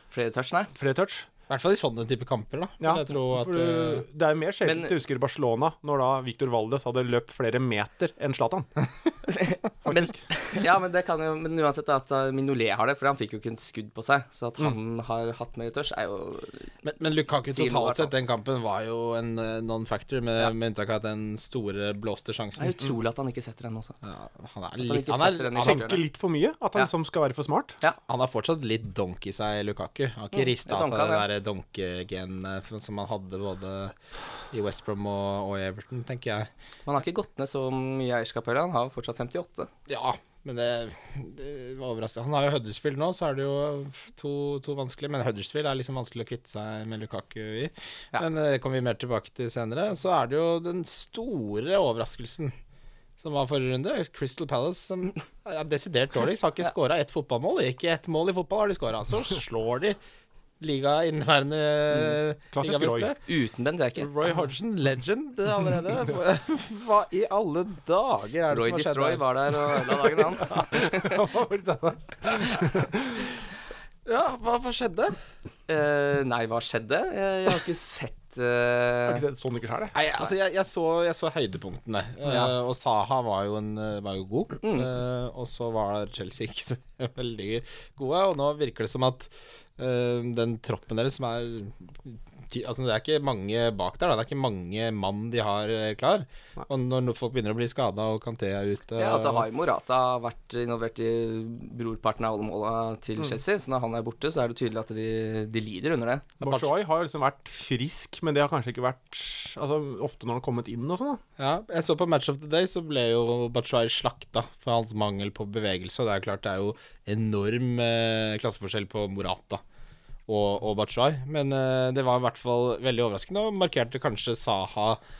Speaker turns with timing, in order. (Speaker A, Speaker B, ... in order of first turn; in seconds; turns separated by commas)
Speaker A: 0.1-0.7, Speaker B: 0.7-1.3, Speaker C: 1.5-4.0, Speaker B: 2.8-8.7, Speaker A: 4.7-5.0, Speaker A: 9.3-16.7, Speaker B: 9.8-10.2, Speaker C: 16.8-22.8, Speaker A: 17.5-18.1, Speaker A: 22.6-24.0, Speaker C: 24.0-25.9, Speaker A: 24.8-26.0, Speaker B: 25.6-27.8, Speaker C: 28.1-34.0, Speaker A: 30.3-31.2, Speaker C: 34.5-36.5, Speaker A: 36.9-39.7, Speaker C: 39.9-52.5, Speaker C: 53.2-60.0, Speaker C: 60.6-63.2, Speaker B: 62.5-63.1, Speaker A: 63.3-64.1, Speaker C: 64.0-70.2, Speaker A: 68.5-71.1, Speaker B: 70.4-73.3, Speaker C: 74.0-75.2, Speaker A: 75.7-79.2, Speaker B: 79.1-80.0, Speaker C: 79.9-99.5, Speaker A: 99.0-106.3, Speaker C: 106.4-106.7, Speaker B: 106.4-111.2, Speaker C: 111.4-119.6, Speaker C: 120.3-125.0